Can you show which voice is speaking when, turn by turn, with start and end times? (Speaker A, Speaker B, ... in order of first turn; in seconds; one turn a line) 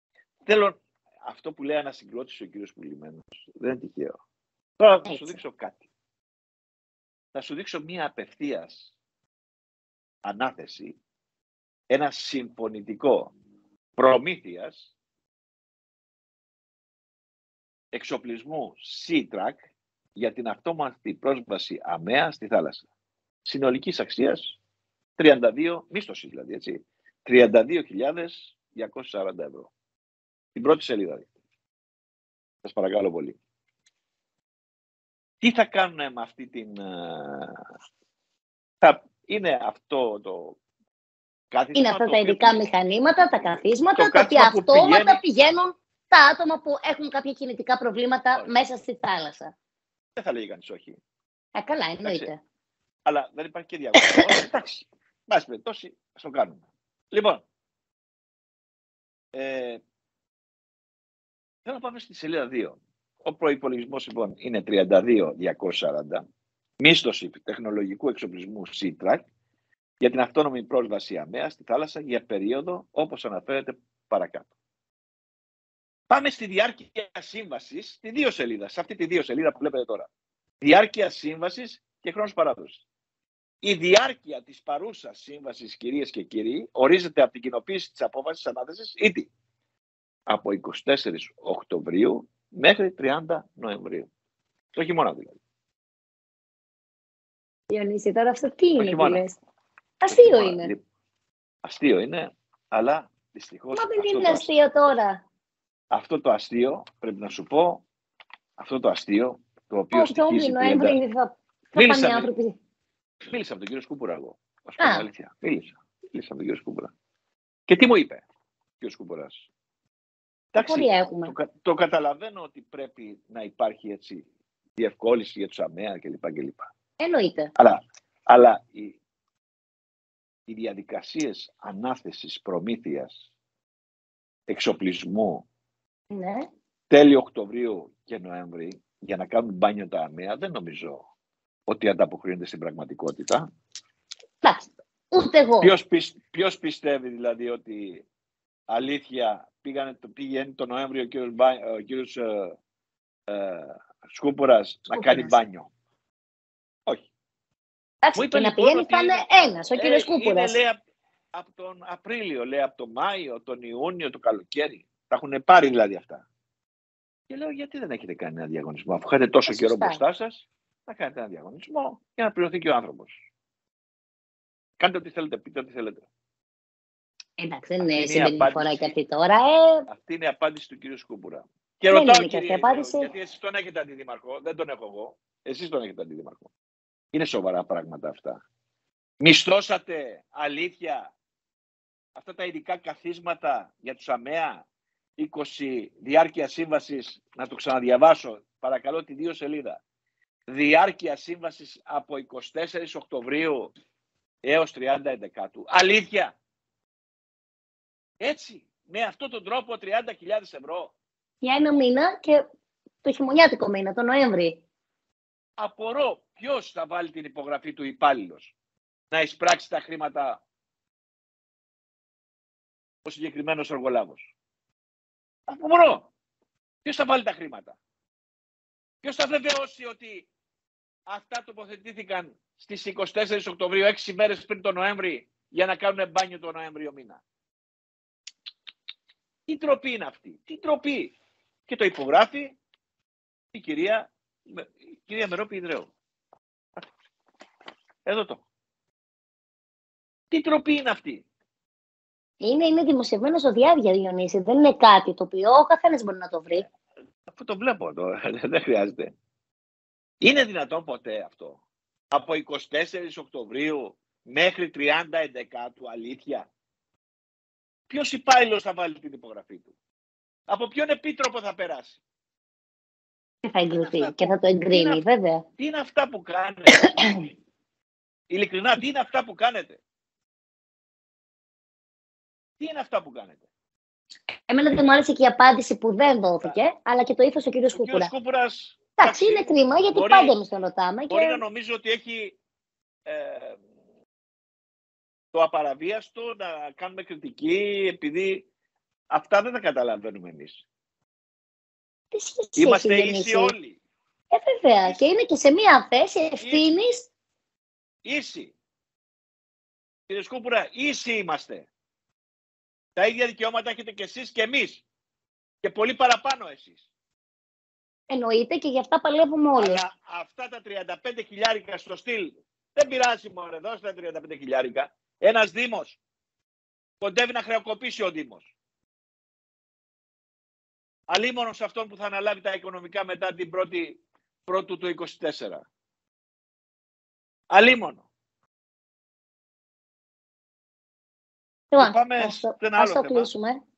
Speaker A: 0.5-4.2
Speaker A: 4.8-5.8
Speaker B: 5.1-5.4
Speaker A: 7.3-8.9
Speaker A: 10.2-11.0
Speaker A: 11.9-13.3
Speaker A: 14.0-14.9
Speaker A: 17.9-19.6
Speaker A: 20.2-22.9
Speaker A: 23.4-24.6
Speaker A: 25.2-29.7
Speaker A: 30.6-31.3
Speaker A: 32.6-33.4
Speaker A: 35.4-37.6
Speaker A: 38.8-40.6
Speaker A: 41.5-45.2
Speaker B: 41.8-49.5
Speaker A: 48.3-48.6
Speaker A: 50.2-51.0
Speaker B: 51.5-52.4
Speaker A: 52.0-52.3
Speaker A: 53.0-57.5
Speaker A: 59.3-59.8
Speaker A: 61.6-66.2
Speaker A: 66.8-69.3
Speaker A: 70.0-74.5
Speaker A: 76.1-80.1
Speaker A: 80.6-82.8
Speaker A: 83.6-89.3
Speaker A: 90.3-94.1
Speaker A: 94.7-95.4
Speaker B: 97.7-99.4
Speaker A: 98.8-99.2
Speaker B: 100.0-100.7
Speaker A: 100.1-100.8
Speaker A: 101.7-104.5
Speaker B: 103.7-105.2
Speaker A: 105.9-107.8
Speaker A: 108.6-111.0
Speaker B: 109.9-112.5
Speaker A: 111.8-112.3
Speaker A: 113.3-116.9
Speaker B: 114.8-115.0
Speaker A: 117.7-118.2
Speaker A: 118.8-119.5
Speaker A: 120.5-126.7
Speaker B: 120.6-121.3
Speaker B: 127.0-127.5
Speaker A: 127.6-129.0
Speaker A: 130.5-133.2
Speaker A: 134.5-135.5
Speaker B: 136.1-136.5
Speaker A: 136.9-141.1
Speaker A: 141.7-143.5
Speaker B: 144.4-145.7
Speaker A: 145.6-148.1
Speaker A: 148.7-152.6
Speaker A: 153.3-155.7
Speaker B: 154.9-155.4
Speaker B: 158.0-160.6
Speaker A: 158.2-160.8
Speaker A: 161.3-166.3
Speaker A: 167.3-173.1
Speaker B: 169.5-170.0
Speaker A: 174.8-176.1
Speaker B: 177.4-179.9
Speaker A: 177.9-178.9
Speaker A: 179.9-186.5
Speaker B: 181.9-183.1
Speaker A: 187.1-188.4
Speaker A: 189.2-191.1
Speaker A: 192.2-194.7
Speaker A: 195.2-199.8
Speaker A: 200.5-203.7
Speaker A: 204.4-206.4
Speaker A: 208.2-210.9
Speaker B: 211.4-212.4
Speaker B: 213.0-214.6
Speaker A: 215.6-218.5
Speaker A: 219.1-220.4
Speaker A: 223.1-224.2
Speaker A: 225.5-226.1
Speaker A: 226.8-227.8
Speaker A: 229.0-230.3
Speaker A: 231.1-237.2
Speaker A: 239.5-241.2
Speaker A: 241.7-242.6
Speaker A: 243.5-245.9
Speaker A: 248.1-248.4
Speaker A: 250.3-251.3
Speaker B: 252.4-256.6
Speaker A: 257.3-259.1
Speaker A: 260.2-266.5
Speaker A: 267.9-269.7
Speaker A: 270.5-272.0
Speaker B: 273.4-275.4
Speaker A: 273.7-275.0
Speaker A: 275.6-276.8
Speaker B: 276.8-277.2
Speaker A: 278.3-279.8
Speaker A: 282.6-283.4
Speaker B: 284.5-288.1
Speaker A: 287.7-290.4
Speaker B: 289.0-291.4
Speaker A: 291.1-292.4
Speaker A: 293.1-293.6
Speaker A: 295.3-298.5
Speaker A: 299.1-300.6
Speaker B: 302.1-303.5
Speaker A: 302.6-303.8
Speaker B: 304.3-307.1
Speaker A: 306.4-306.8
Speaker A: 308.1-308.5
Speaker A: 310.1-311.7
Speaker A: 313.0-314.8
Speaker A: 315.6-316.8
Speaker B: 318.1-319.8
Speaker A: 319.6-326.0
Speaker A: 327.0-328.5
Speaker A: 331.1-335.7
Speaker A: 337.5-338.1
Speaker B: 341.7-343.6
Speaker A: 341.8-343.3